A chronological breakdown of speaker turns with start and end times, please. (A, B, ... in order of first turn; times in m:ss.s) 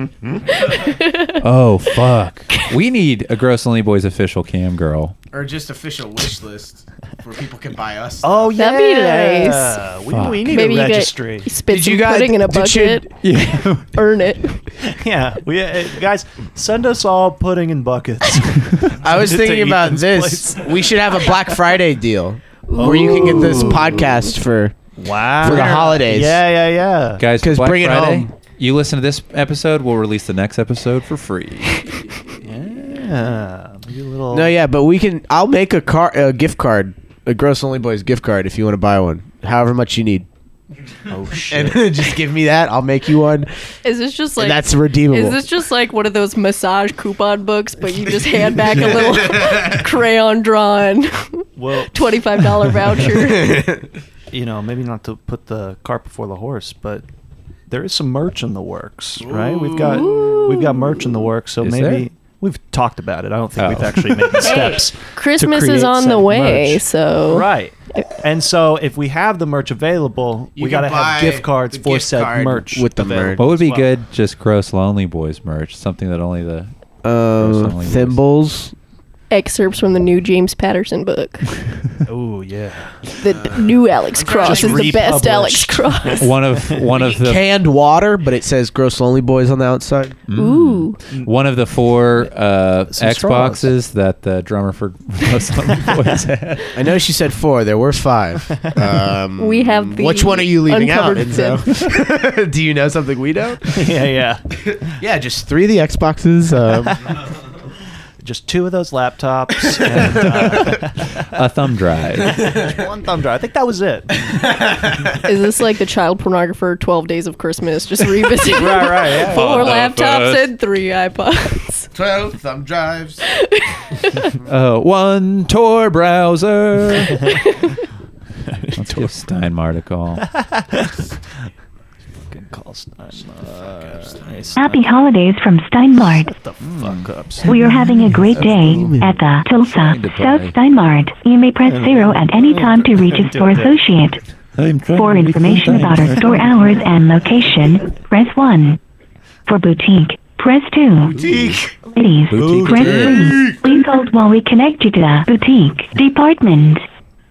0:00.5-0:01.4 A
0:01.4-0:05.1 B
0:05.3-0:08.5 C
0:08.2-0:11.5 D
0:08.6-0:09.8 A
0:10.1-0:10.4 B
0:10.5-0:13.1 A
0:11.7-0:13.1 C
0:13.2-0:13.9 B
0:13.9-0:14.6 A
0:14.8-0:21.3 D
0:19.0-0:24.8 C
0:22.7-0:23.8 A
0:22.8-0:24.1 D
0:25.0-0:27.2 D
0:25.4-0:26.4 C
0:25.4-0:25.9 B
0:27.2-0:32.0 B
0:27.4-0:28.3 C
0:32.4-0:34.6 D
0:34.3-0:40.3 C
0:41.1-0:41.9 D
0:41.5-0:43.5 C
0:43.8-0:53.6 A
0:44.4-0:45.4 C
0:48.6-0:49.8 C
0:51.6-0:52.2 D
0:53.1-0:53.9 C
0:54.3-0:57.0 D
0:57.7-1:13.9 D
0:59.2-1:00.2 C
0:59.9-1:01.0 A
1:01.6-1:02.1 B
1:03.6-1:04.5 B
1:04.4-1:08.1 A
1:10.6-1:13.4 C
1:13.4-1:16.7 B
1:17.0-1:18.8 C
1:17.4-1:18.2 B
1:19.3-1:21.5 A
1:22.1-1:23.0 D
1:23.2-1:26.3 A
1:23.3-1:25.2 C
1:24.4-1:26.9 D
1:26.2-1:27.4 B
1:26.9-1:30.2 C
1:30.3-1:36.7 B
1:30.3-1:31.0 A
1:32.9-1:33.7 D
1:36.7-1:43.8 C
1:39.4-1:41.7 A
1:43.7-1:44.4 D
1:44.7-1:47.0 C
1:48.2-1:51.3 D
1:50.0-1:50.5 C
1:51.3-1:52.4 B
1:52.2-1:54.2 D
1:52.2-1:52.8 C
1:54.2-1:55.2 C
1:55.2-2:01.9 A
1:58.4-1:59.8 D
1:59.2-2:00.5 B
2:01.9-2:03.2 C
2:03.4-2:04.3 A
2:04.5-2:07.4 B
2:08.4-2:09.1 D
2:08.8-2:10.3 B
2:10.3-2:11.1 D
2:12.3-2:14.9 D
2:13.2-2:14.6 C
2:14.6-2:16.3 E
2:16.0-2:17.6 D
2:16.6-2:17.1 B
2:17.4-2:24.2 E
2:18.4-2:19.1 B
2:19.7-2:20.6 B
2:21.6-2:23.8 D
2:24.6-2:26.5 B
2:25.0-2:28.8 E
2:26.2-2:26.5 D
2:29.5-2:31.2 E
2:31.0-2:31.6 B
2:31.1-2:31.7 D
2:31.9-2:36.8 E
2:32.3-2:33.6 B
2:32.3-2:33.5 D